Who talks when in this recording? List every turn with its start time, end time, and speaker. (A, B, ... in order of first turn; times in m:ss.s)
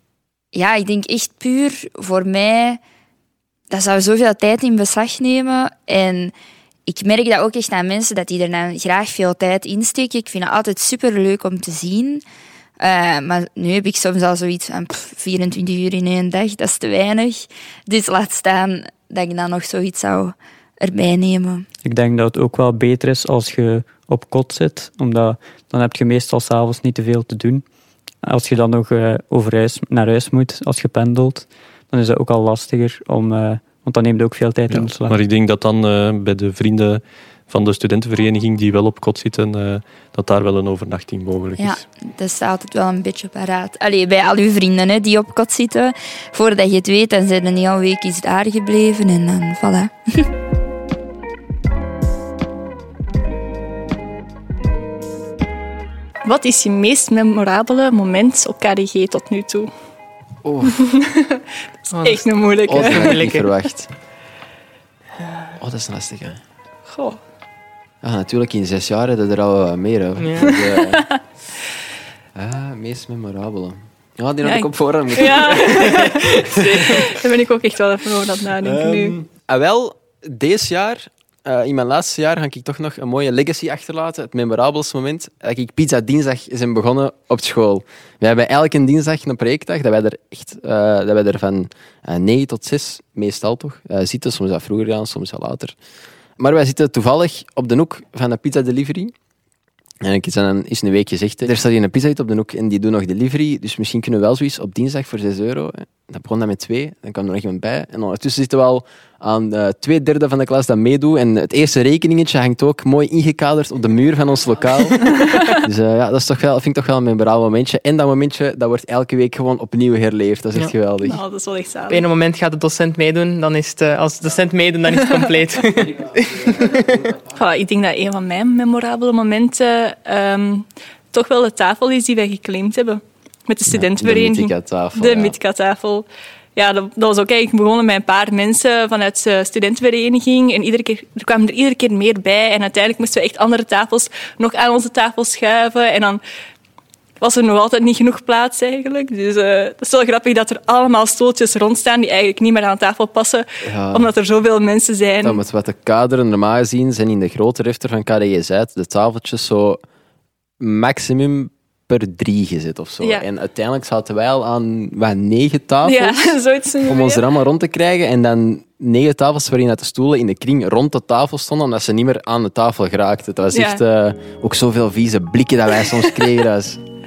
0:00.5-0:02.8 A
0:03.7-0:06.3 A
0:06.9-0:12.2 A
0:12.8-0:21.6 A
0:21.8-0:27.6 B
0:28.2-0:35.1 B
0:34.7-0:41.8 C
0:41.6-0:50.3 A
0:56.2-0:59.7 D
1:00.4-1:00.8 E
1:01.9-1:03.5 F
1:02.0-1:03.2 D
1:02.7-1:03.9 E
1:05.6-1:06.4 E
1:06.9-1:07.2 D
1:08.0-1:11.0 E
1:10.2-1:10.5 F
1:10.5-1:11.0 D
1:12.4-1:17.0 E
1:14.4-1:19.2 D
1:18.6-1:35.8 E
1:36.4-1:39.1 E
1:40.0-2:01.2 E
2:01.0-2:02.1 D
2:01.9-2:07.0 F
2:04.9-2:05.4 D
2:07.4-2:26.2 D
2:13.7-2:15.4 E
2:27.2-2:35.4 D
2:33.6-2:34.1 E
2:35.2-2:39.8 E
2:40.6-2:46.3 E
2:45.8-2:47.2 D
2:46.8-2:56.8 E
2:53.5-2:53.8 D